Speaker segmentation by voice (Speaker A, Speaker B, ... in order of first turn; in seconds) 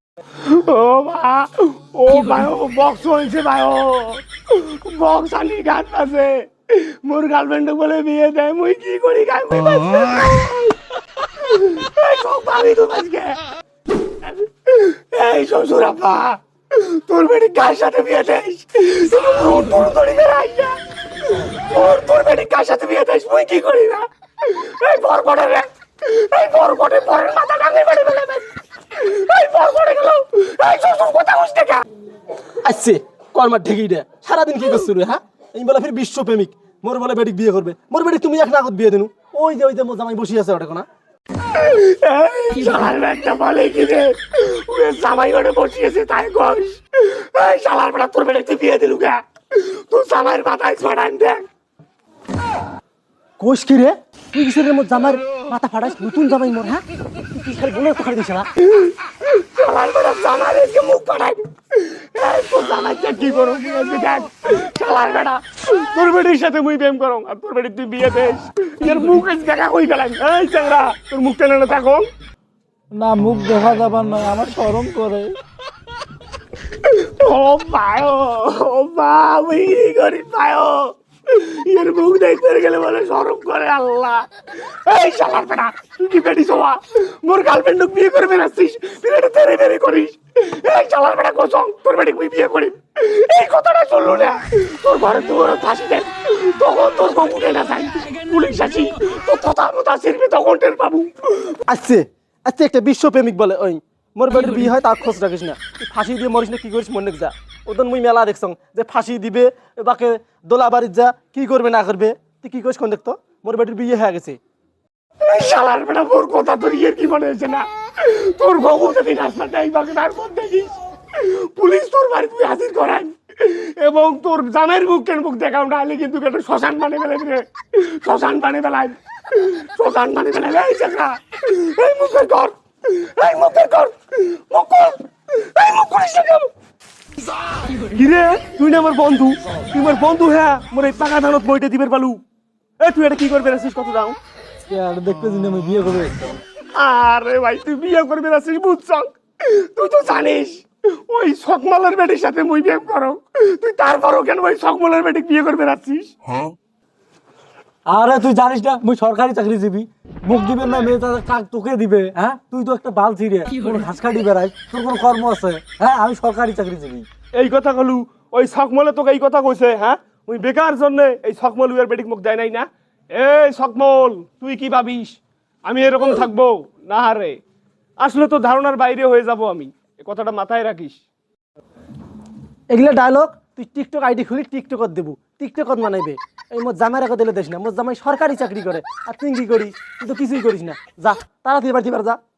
Speaker A: 0.4-13.4, 14.2-31.8, 41.5-51.4, 58.8-72.1, 76.7-101.6, 115.2-136.5, 137.9-142.2, 142.8-144.2, 146.7-156.1, 167.3-177.4, 178.0-181.0
Speaker B: 32.6-40.9, 53.4-58.5, 101.7-114.4, 182.7-192.2
Speaker C: 73.0-75.3, 144.7-146.3, 157.9-167.1